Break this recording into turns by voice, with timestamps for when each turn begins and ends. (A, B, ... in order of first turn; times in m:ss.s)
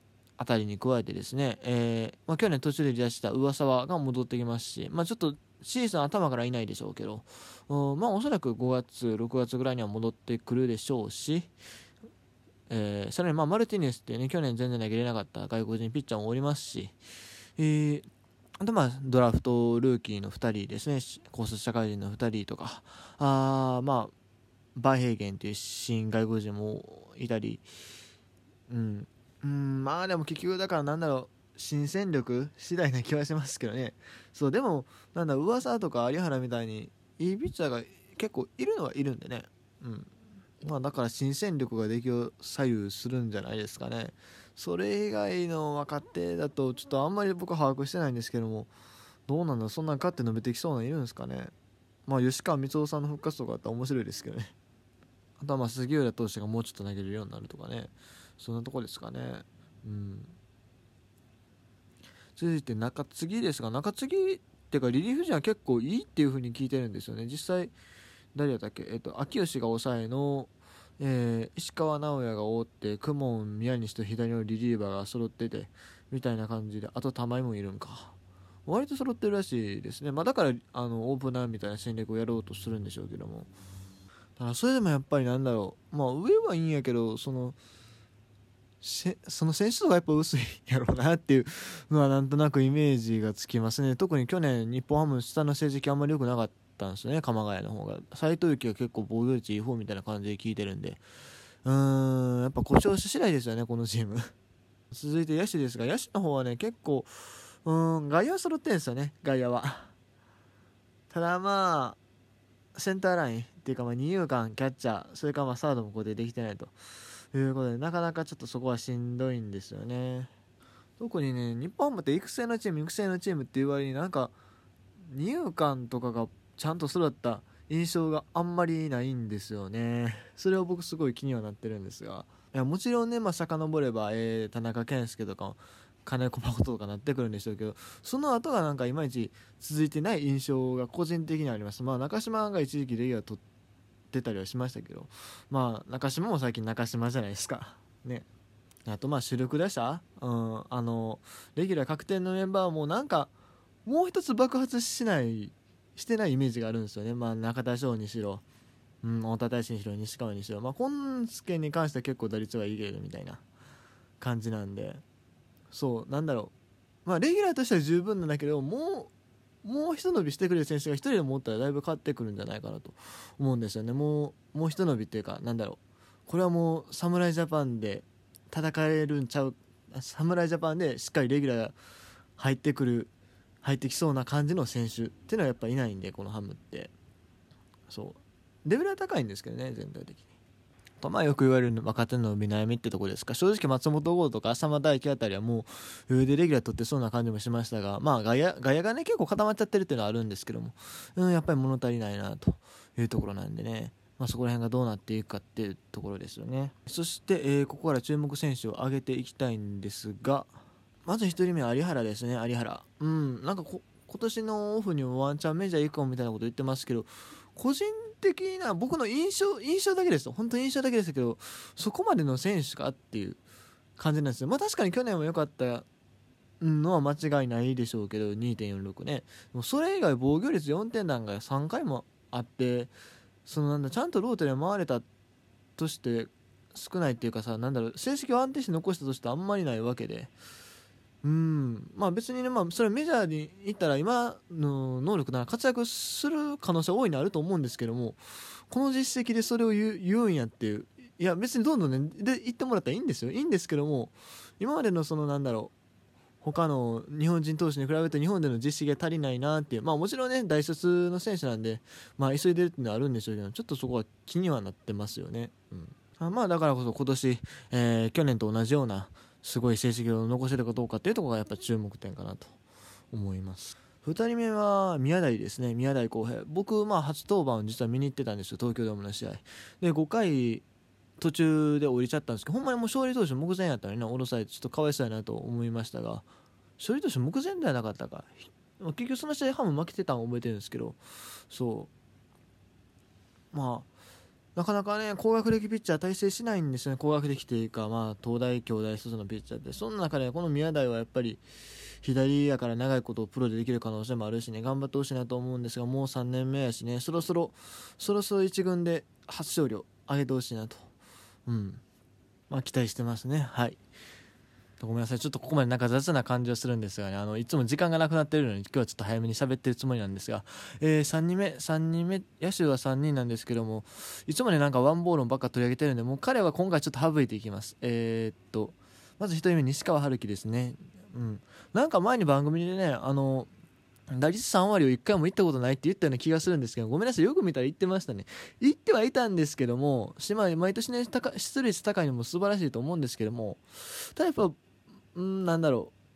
0:00.4-0:11.5 A
0:12.7-0:17.0 A
0:17.6-0:18.1 A
0:18.6-0:24.1 A
0:24.8-0:27.7 A
0:28.7-0:48.7 A
0:49.3-0:51.5 A
0:52.1-0:54.5 A
0:55.4-1:00.4 A
1:02.4-1:07.7 A
1:08.3-1:18.1 A
1:18.6-1:23.5 A
1:24.4-1:27.6 A
1:28.8-1:41.0 A
1:41.6-1:44.3 A
1:44.9-1:49.9 A
1:51.1-1:52.0 A
1:52.7-1:56.7 A
1:57.3-2:00.3 A
2:01.0-2:04.3 A
2:05.1-2:23.4 A
2:24.1-2:28.2 A
2:28.8-2:33.3 A
2:33.8-2:38.4 A
2:39.0-2:43.4 A
2:44.2-2:45.0 A
2:45.7-2:46.5 A
2:47.0-2:49.1 A
2:49.6-3:01.8 A
3:02.4-3:03.1 A
3:03.6-3:06.9 A
3:07.9-3:10.2 A
3:11.0-3:43.4 A
3:44.0-3:45.8 A
3:46.6-3:52.9 A
3:53.4-3:55.0 A
3:55.8-4:00.3 A
4:01.2-4:15.7 A
4:16.4-4:32.5 A
4:33.1-4:40.6 A
4:41.2-4:46.3 A
4:46.8-4:51.9 A
4:53.5-4:53.9 A
4:54.5-5:01.4 A
5:02.0-5:10.9 A
5:11.4-5:11.8 A
5:12.5-5:13.8 A
5:14.8-5:33.5 A
5:34.1-5:44.6 A
5:45.1-5:45.9 A